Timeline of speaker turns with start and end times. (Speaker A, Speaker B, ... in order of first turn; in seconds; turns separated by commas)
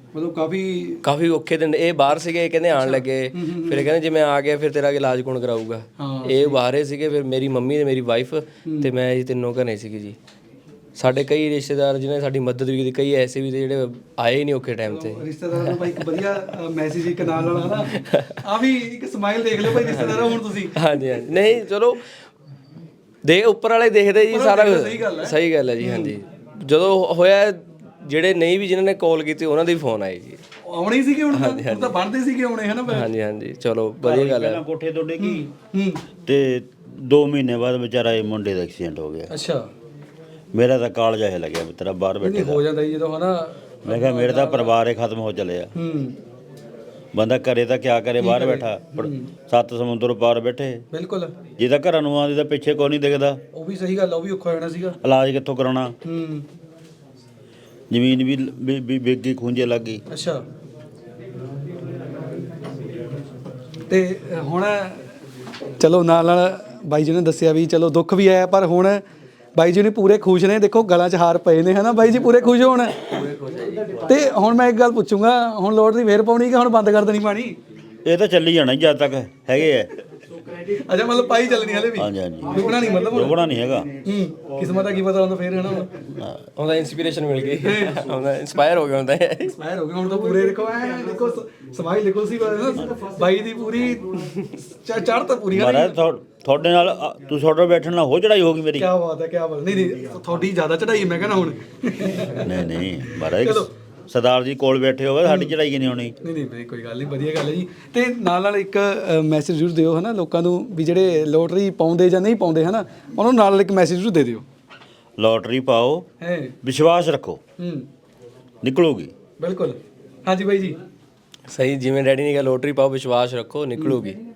Speaker A: 0.1-1.0, Speaker B: 1.0-10.2, Speaker A: 2.7-3.9, Speaker A: 6.0-6.6, Speaker A: 8.7-8.9, Speaker B: 10.9-16.5, Speaker A: 14.8-20.8, Speaker B: 17.9-18.3, Speaker B: 19.7-22.1, Speaker B: 23.2-30.4, Speaker A: 24.3-26.1, Speaker A: 30.6-33.1, Speaker B: 31.3-32.0, Speaker B: 32.9-34.6, Speaker C: 34.0-35.5, Speaker A: 35.2-36.0, Speaker C: 36.2-39.3, Speaker A: 39.3-39.7, Speaker C: 40.5-42.6, Speaker A: 42.2-44.7, Speaker C: 43.8-45.7, Speaker A: 45.7-46.2, Speaker C: 47.1-50.8, Speaker A: 48.2-49.3, Speaker A: 50.9-51.3, Speaker C: 51.6-53.4, Speaker A: 53.5-55.0, Speaker C: 55.0-55.9, Speaker A: 56.0-56.5, Speaker C: 57.9-60.0, Speaker A: 60.1-60.4, Speaker A: 63.9-65.1, Speaker A: 65.8-69.0, Speaker A: 69.5-73.1, Speaker B: 73.0-74.2, Speaker A: 74.0-77.6, Speaker C: 78.0-79.9, Speaker A: 80.7-83.4, Speaker C: 81.9-83.9, Speaker A: 84.0-85.9, Speaker C: 86.1-86.4, Speaker B: 86.5-89.5, Speaker A: 87.6-88.0, Speaker A: 89.5-96.0, Speaker C: 95.5-98.9, Speaker A: 98.8-102.6, Speaker C: 102.4-106.1, Speaker A: 103.2-103.7, Speaker A: 105.2-105.5, Speaker A: 106.2-114.4, Speaker C: 115.2-116.1, Speaker A: 116.2-116.5, Speaker C: 116.6-117.4, Speaker A: 117.6-117.9, Speaker C: 118.6-119.1, Speaker A: 119.4-120.8, Speaker B: 121.5-124.2